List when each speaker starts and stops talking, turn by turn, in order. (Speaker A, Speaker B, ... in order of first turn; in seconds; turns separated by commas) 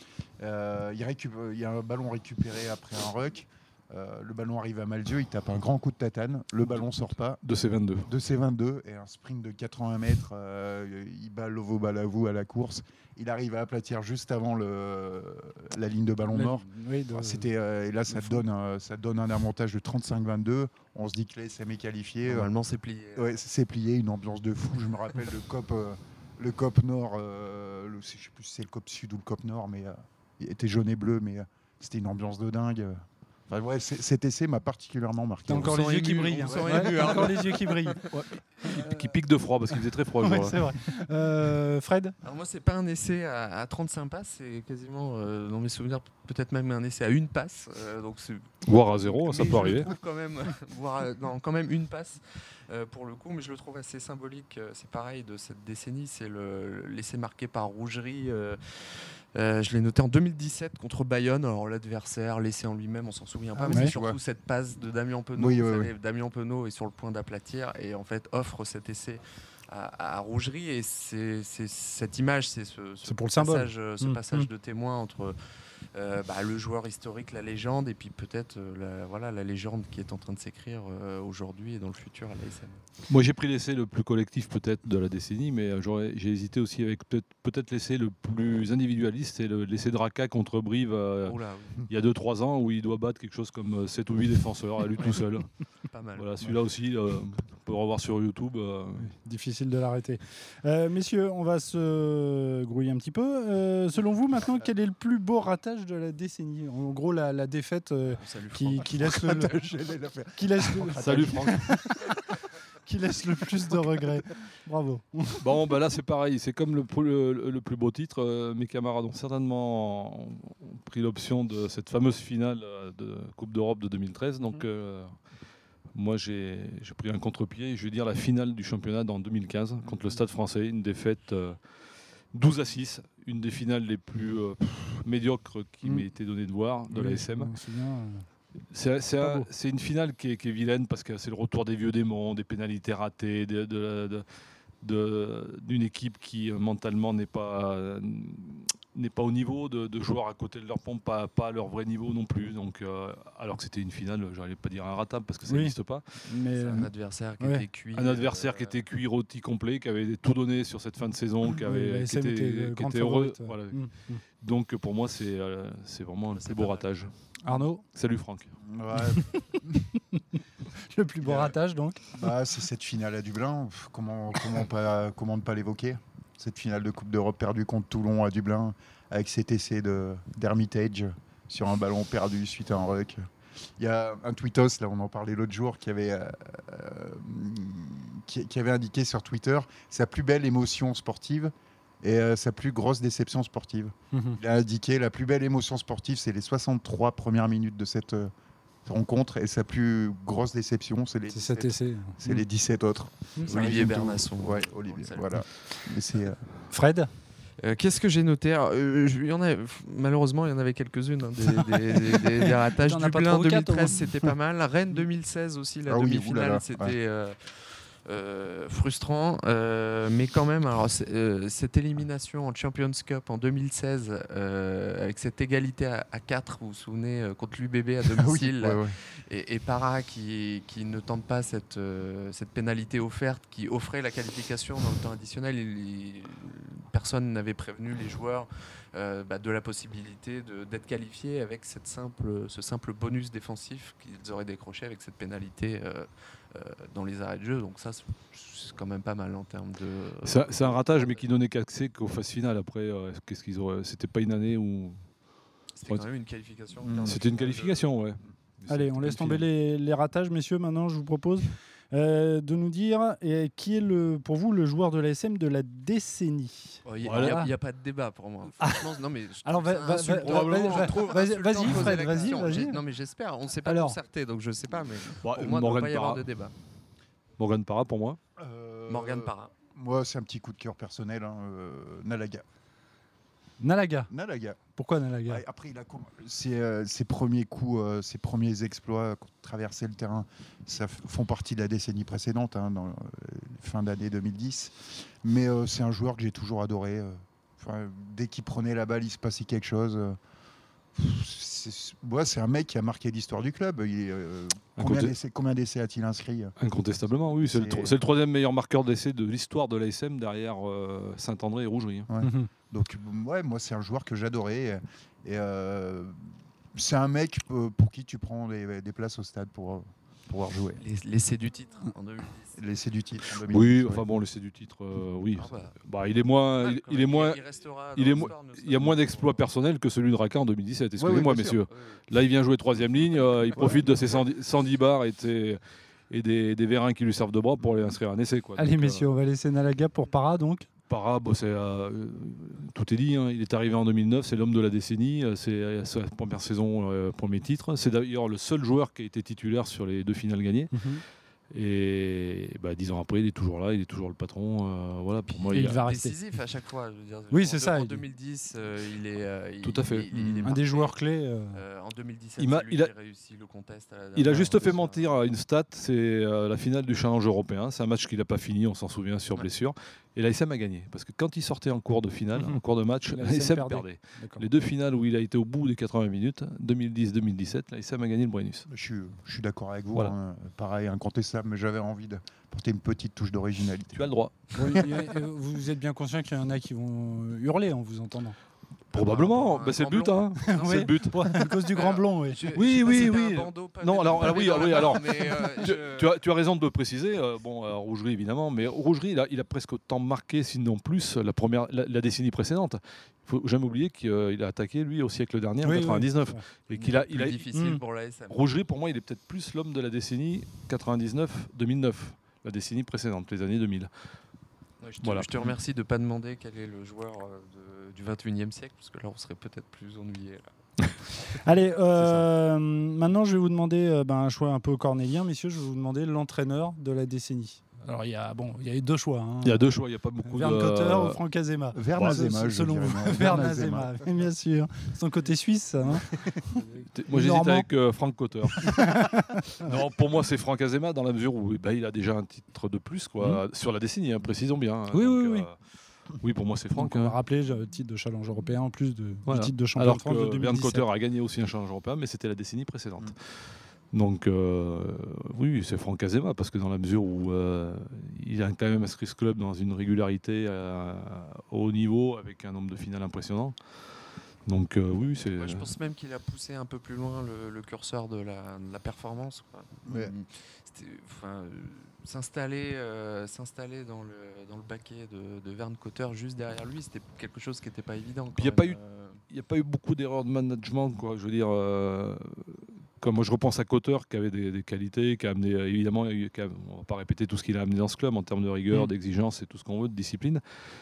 Speaker A: 0.4-7.4, Speaker B: 7.4-8.1, Speaker A: 8.1-22.5, Speaker C: 16.3-17.5, Speaker C: 18.1-18.4, Speaker D: 22.2-23.4, Speaker A: 23.2-37.4, Speaker C: 35.5-38.0, Speaker D: 35.5-38.1, Speaker B: 38.1-40.6, Speaker D: 38.6-39.0, Speaker C: 40.2-42.1, Speaker D: 42.2-75.3, Speaker B: 48.6-49.9, Speaker A: 63.5-64.2, Speaker A: 65.4-65.9, Speaker C: 73.0-74.5, Speaker D: 75.9-82.8, Speaker B: 83.1-95.5, Speaker D: 91.2-91.9, Speaker D: 95.0-95.2, Speaker D: 95.9-96.5, Speaker B: 96.2-99.2, Speaker C: 99.2-109.6, Speaker D: 108.1-109.6, Speaker A: 108.8-112.0, Speaker C: 110.3-112.1, Speaker B: 111.0-111.7, Speaker C: 112.9-115.4, Speaker B: 115.4-125.1, Speaker B: 125.9-131.6, Speaker B: 132.3-137.6, Speaker C: 136.9-138.3, Speaker B: 138.7-144.2, Speaker C: 139.2-139.5, Speaker B: 144.8-156.1, Speaker C: 155.5-157.6, Speaker D: 156.6-158.8, Speaker B: 157.9-163.9, Speaker C: 161.6-164.2, Speaker B: 164.4-167.1, Speaker D: 166.3-167.0, Speaker C: 167.4-167.8, Speaker B: 167.9-168.5, Speaker A: 168.6-169.3, Speaker C: 169.0-170.2, Speaker C: 170.7-172.2, Speaker A: 171.2-171.6, Speaker A: 172.1-183.2, Speaker A: 183.8-198.3, Speaker C: 194.1-194.4, Speaker A: 198.8-206.4, Speaker C: 201.3-202.2, Speaker D: 203.5-205.3, Speaker C: 206.7-207.1, Speaker D: 207.6-251.3, Speaker C: 212.8-214.0, Speaker A: 215.9-217.0, Speaker A: 228.1-228.9, Speaker B: 250.2-255.0, Speaker D: 255.8-257.9, Speaker A: 256.8-257.2, Speaker B: 257.0-259.5, Speaker C: 258.7-267.5, Speaker D: 266.9-276.5, Speaker B: 267.0-267.4, Speaker C: 268.6-268.9, Speaker C: 269.4-272.8, Speaker B: 270.2-270.9, Speaker C: 273.6-274.0, Speaker B: 275.2-276.2, Speaker B: 277.4-278.2, Speaker A: 278.4-282.4, Speaker D: 278.9-279.5, Speaker C: 283.6-284.1, Speaker A: 284.1-284.6, Speaker C: 284.8-285.4, Speaker A: 285.3-300.2, Speaker A: 300.9-306.6, Speaker B: 304.8-305.1, Speaker B: 306.6-312.1, Speaker A: 307.4-307.9, Speaker A: 312.1-320.8, Speaker C: 312.2-312.5, Speaker D: 320.8-322.6, Speaker A: 322.6-324.1, Speaker B: 323.5-327.4, Speaker D: 325.4-325.8, Speaker D: 326.6-329.4, Speaker B: 328.0-339.0, Speaker A: 331.0-331.7, Speaker D: 331.7-332.0, Speaker A: 333.6-333.8, Speaker C: 338.6-340.7, Speaker B: 340.9-350.7, Speaker C: 350.7-351.0, Speaker B: 351.5-355.8, Speaker C: 355.5-356.2, Speaker D: 355.6-361.0, Speaker C: 357.3-358.0, Speaker B: 359.6-360.1, Speaker A: 360.1-360.5, Speaker C: 360.4-361.6, Speaker D: 361.5-365.1, Speaker B: 362.4-362.9, Speaker B: 364.1-378.7, Speaker C: 372.4-374.4, Speaker A: 378.7-384.1, Speaker B: 383.9-384.8, Speaker C: 384.6-388.4, Speaker B: 388.9-391.2, Speaker D: 388.9-396.2, Speaker C: 390.5-392.4, Speaker B: 392.5-407.5, Speaker C: 405.6-406.4, Speaker D: 406.7-408.4, Speaker C: 407.5-407.8, Speaker B: 408.3-413.9, Speaker D: 414.8-421.4, Speaker C: 421.4-429.6, Speaker B: 429.4-431.2, Speaker C: 430.2-436.6, Speaker A: 431.7-434.0, Speaker B: 436.9-439.0, Speaker C: 437.1-437.7, Speaker C: 438.6-439.7, Speaker B: 439.6-445.6, Speaker C: 444.9-445.5, Speaker B: 446.2-447.2, Speaker C: 446.8-450.9, Speaker B: 449.3-453.2, Speaker B: 453.9-463.6, Speaker B: 464.5-465.7, Speaker D: 465.3-479.2, Speaker A: 469.9-470.1, Speaker B: 478.4-478.8, Speaker B: 479.3-490.4